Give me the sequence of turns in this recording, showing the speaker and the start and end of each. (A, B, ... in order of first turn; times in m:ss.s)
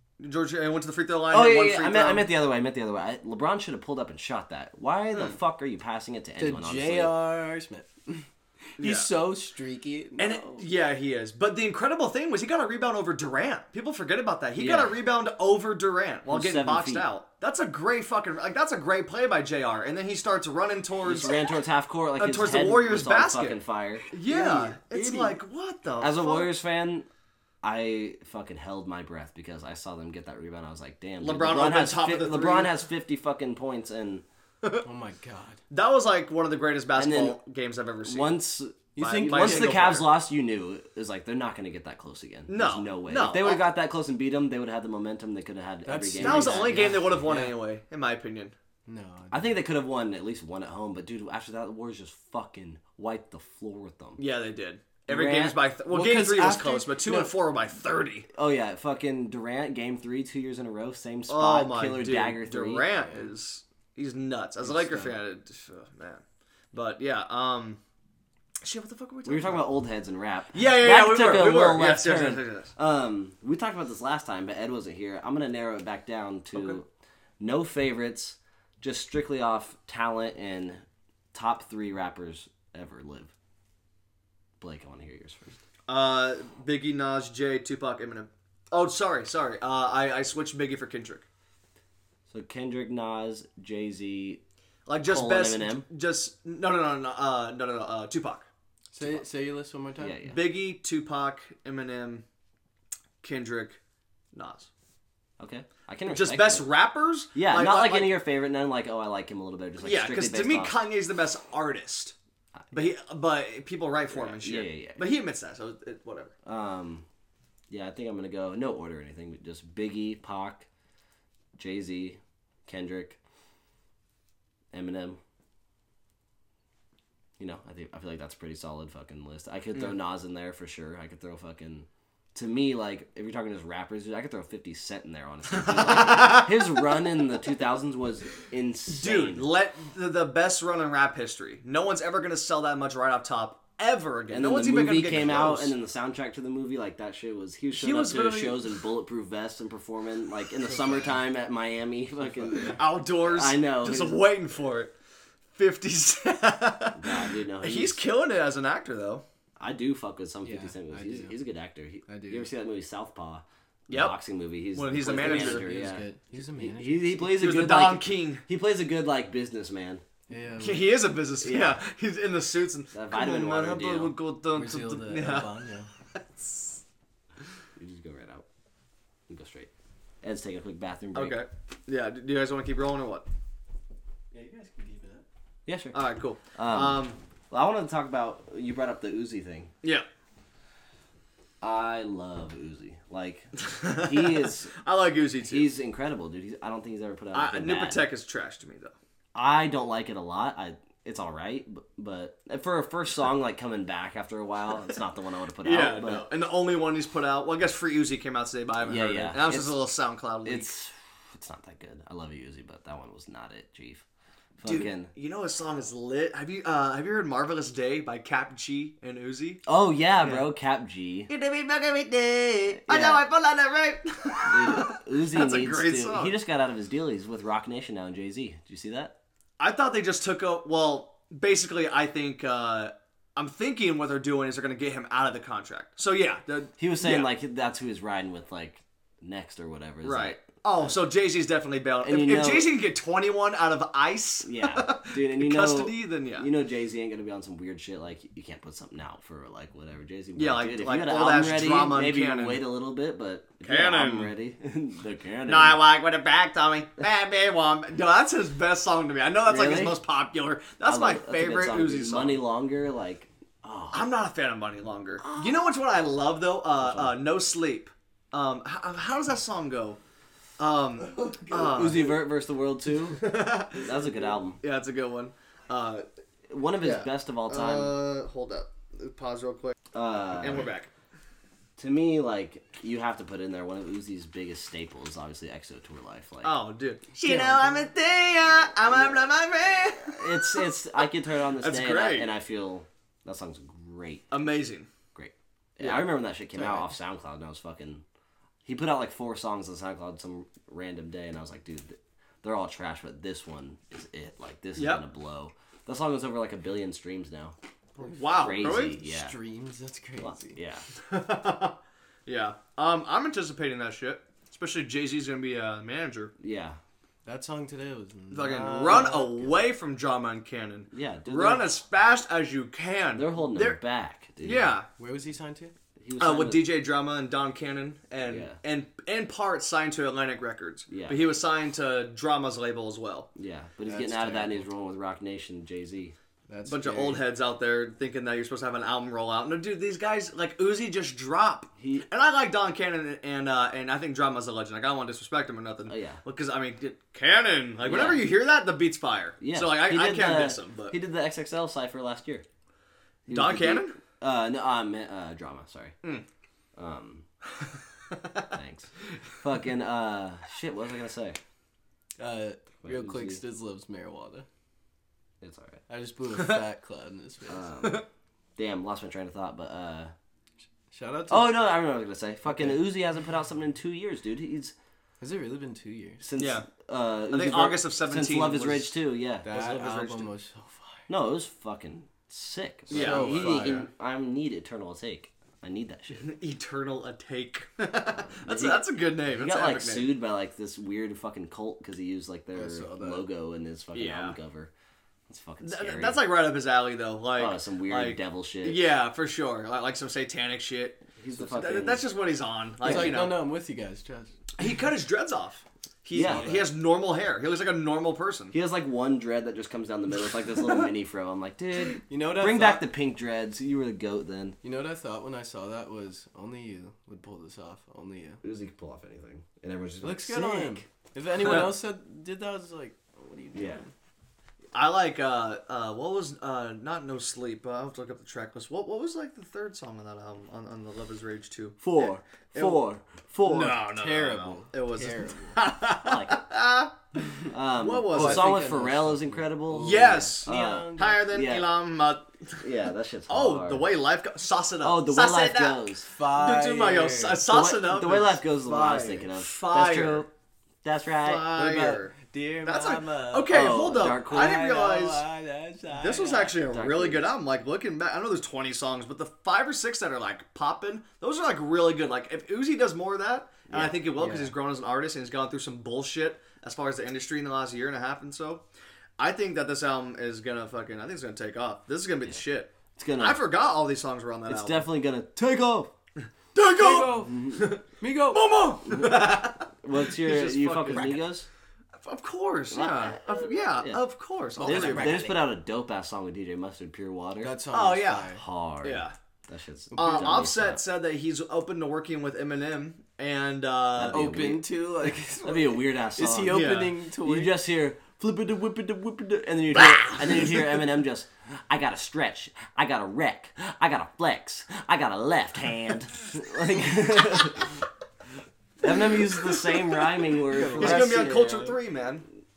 0:00.2-0:02.3 A
0:01.3-0:07.1 B
0:06.4-0:10.6 C
0:08.8-0:09.1 A
0:10.2-0:21.5 A
0:14.6-0:15.0 B
0:16.3-0:17.1 B
0:21.0-0:24.1 B
0:22.2-0:23.6 A
0:24.1-0:26.5 A
0:24.3-0:25.2 C
0:25.0-0:25.3 B
0:26.0-0:27.1 B
0:27.6-0:34.2 B
0:31.2-0:32.7 A
0:34.8-0:35.6 C
0:35.7-0:38.4 A
0:37.0-0:37.4 B
0:38.0-0:47.1 B
0:39.0-0:40.0 C
0:39.0-0:40.1 A
0:42.5-0:43.6 A
0:45.8-0:47.6 C
0:46.2-0:48.5 A
0:48.9-0:49.6 C
0:49.3-0:54.2 B
0:54.2-0:58.3 A
0:55.1-0:55.6 B
0:55.9-0:57.4 C
0:58.3-1:02.9 B
1:01.3-1:07.8 A
1:04.6-1:05.2 C
1:08.6-1:09.7 A
1:09.3-1:16.9 B
1:10.5-1:12.7 A
1:16.5-1:16.8 A
1:17.4-1:23.3 B
1:24.6-1:25.6 B
1:25.9-1:31.3 A
1:32.3-1:34.4 B
1:34.9-1:38.5 A
1:35.0-1:35.9 B
1:38.9-1:40.2 C
1:40.0-1:40.5 B
1:40.3-1:42.2 A
1:43.2-1:43.8 A
1:44.3-1:44.7 A
1:45.4-1:46.7 B
1:46.1-1:48.2 A
1:47.4-1:50.8 B
1:49.8-1:52.2 A
1:52.7-1:56.3 A
1:54.1-1:55.0 B
1:56.4-1:57.1 B
1:57.7-2:00.7 B
2:01.6-2:03.2 B
2:04.7-2:05.2 B
2:07.4-2:19.5 B
2:15.6-2:16.7 A
2:18.9-2:25.8 A
2:24.3-2:34.2 B
2:27.7-2:28.8 A
2:30.6-2:31.2 C
2:32.3-2:32.6 C
2:32.7-2:34.9 A
2:35.5-2:39.2 A
2:37.0-2:38.0 B
2:39.6-2:50.0 B
2:40.4-2:41.4 C
2:42.1-2:42.5 C
2:43.9-2:44.2 A
2:44.7-2:45.7 A
2:45.1-2:47.3 C
2:47.2-2:48.4 A
2:50.3-2:50.9 C
2:50.6-2:55.5 A
2:51.4-2:51.8 B
2:52.9-2:54.2 B
2:54.6-2:55.9 C
2:56.2-2:56.7 A
2:57.8-2:58.4 B
2:59.3-2:59.7 B
3:00.2-3:01.4 B
3:01.1-3:03.2 A
3:04.3-3:05.3 C
3:05.7-3:06.0 B
3:05.9-3:07.2 A
3:06.6-3:09.7 B
3:11.6-3:14.8 B
3:13.6-3:15.7 A
3:15.4-3:18.0 B
3:17.3-3:18.9 A
3:19.4-3:26.3 B
3:25.6-3:30.7 A
3:28.8-3:29.8 B
3:30.4-3:34.0 B
3:34.6-3:35.1 B
3:34.6-3:39.6 A
3:39.7-3:41.3 B
3:40.2-3:40.5 A
3:41.3-3:46.3 A
3:42.8-3:43.2 B
3:44.4-3:49.2 B
3:49.6-3:57.3 A
3:56.8-4:01.0 B
4:00.0-4:06.5 A
4:02.0-4:02.7 B
4:04.4-4:15.8 B
4:10.4-4:12.7 A
4:13.6-4:14.3 A
4:15.5-4:22.4 A
4:19.5-4:20.0 B
4:20.8-4:24.1 B
4:23.9-4:30.0 A
4:25.2-4:25.6 B
4:26.8-4:27.2 B
4:30.6-4:32.2 A
4:31.5-4:34.6 B
4:33.2-4:33.8 A
4:34.6-4:36.0 A
4:36.5-4:37.9 B
4:36.8-4:39.8 A
4:39.9-4:40.7 B
4:40.4-4:40.9 A
4:41.8-4:46.6 B
4:46.4-4:50.7 A
4:47.2-4:47.9 C
4:50.0-4:54.3 B
4:51.6-4:52.3 A
4:54.3-4:54.9 A
4:55.1-4:58.0 B
4:55.8-4:56.1 A
4:56.5-4:56.9 C
4:58.6-5:07.6 B
5:04.8-5:05.0 A
5:08.0-5:09.0 A
5:08.3-5:09.4 B
5:08.4-5:10.6 C
5:10.2-5:10.9 B
5:11.0-5:16.3 A
5:16.4-5:16.8 B
5:17.3-5:19.5 C
5:18.3-5:23.8 A
5:18.8-5:19.1 B
5:20.9-5:21.8 B
5:23.1-5:24.7 B
5:24.4-5:24.9 A
5:25.0-5:25.8 C
5:26.0-5:26.6 B
5:26.2-5:33.3 A
5:28.2-5:28.6 B
5:30.9-5:31.2 B
5:33.4-5:36.2 B
5:33.9-5:34.7 C
5:36.5-5:37.2 C
5:36.6-5:51.0 A
5:41.8-5:42.1 B
5:45.9-5:46.2 B
5:47.8-5:48.3 B
5:49.4-5:52.4 B
5:53.3-5:56.0 B
5:53.3-5:54.0 A
5:56.8-5:57.2 B
5:58.5-6:01.4 B
6:02.2-6:04.5 C
6:02.8-6:03.4 B
6:05.4-6:05.8 B
6:05.9-6:07.7 C
6:06.4-6:06.6 A
6:07.5-6:08.0 B
6:08.6-6:10.1 B
6:10.9-6:11.7 C
6:11.3-6:14.7 B
6:12.5-6:12.8 C
6:15.2-6:16.2 C
6:16.2-6:19.6 B
6:16.4-6:16.7 A
6:17.3-6:19.0 A
6:19.4-6:21.1 C
6:19.5-6:20.3 A
6:21.1-6:26.3 B
6:22.9-6:23.8 A
6:22.9-6:23.9 C
6:26.2-6:30.1 A
6:28.4-6:34.7 B
6:32.5-6:33.3 C
6:33.9-6:34.4 A
6:35.3-6:36.2 B
6:35.6-6:43.4 A
6:37.4-6:38.9 B
6:41.2-6:42.1 B
6:42.8-6:43.3 B
6:42.8-6:44.3 C
6:44.6-6:48.6 A
6:46.1-6:46.6 B
6:46.2-6:46.7 C
6:48.5-6:54.6 B
6:52.1-6:52.9 C
6:54.6-6:58.4 C
6:58.4-7:00.8 B
7:00.0-7:03.9 C
7:01.4-7:01.7 A
7:03.5-7:03.8 B
7:04.7-7:12.8 A
7:11.8-7:13.9 B
7:13.5-7:18.6 A
7:13.9-7:15.6 C
7:16.0-7:16.4 B
7:17.5-7:21.7 B
7:18.1-7:21.2 C
7:19.8-7:22.7 A
7:22.6-7:23.9 B
7:23.3-7:28.5 A
7:24.8-7:26.1 B
7:26.1-7:27.4 C
7:27.5-7:30.3 B
7:28.7-7:29.3 C
7:29.3-7:30.3 A
7:30.8-7:31.6 B
7:31.2-7:35.2 A
7:31.5-7:36.5 C
7:33.5-7:34.6 B
7:36.0-7:48.6 A
7:36.2-7:37.3 B
7:43.7-7:44.1 B
7:44.2-7:44.5 C
7:49.2-7:54.9 A
7:52.9-7:53.4 B
7:54.5-7:55.9 B
7:56.5-8:01.2 A
7:56.7-7:57.4 C
7:57.1-7:57.8 B
7:58.0-7:58.7 C
7:58.9-8:01.5 B
8:02.0-8:05.3 A
8:02.7-8:04.0 B
8:04.6-8:05.4 C
8:04.6-8:07.6 B
8:07.4-8:08.4 C
8:07.7-8:09.2 A
8:08.3-8:10.8 B
8:09.9-8:10.4 C
8:10.0-8:14.3 A
8:14.0-8:14.8 B
8:14.1-8:17.6 C
8:15.4-8:27.8 B
8:16.5-8:16.9 A
8:19.8-8:20.6 A
8:28.8-8:31.8 B
8:30.4-8:31.4 C
8:30.7-8:32.2 A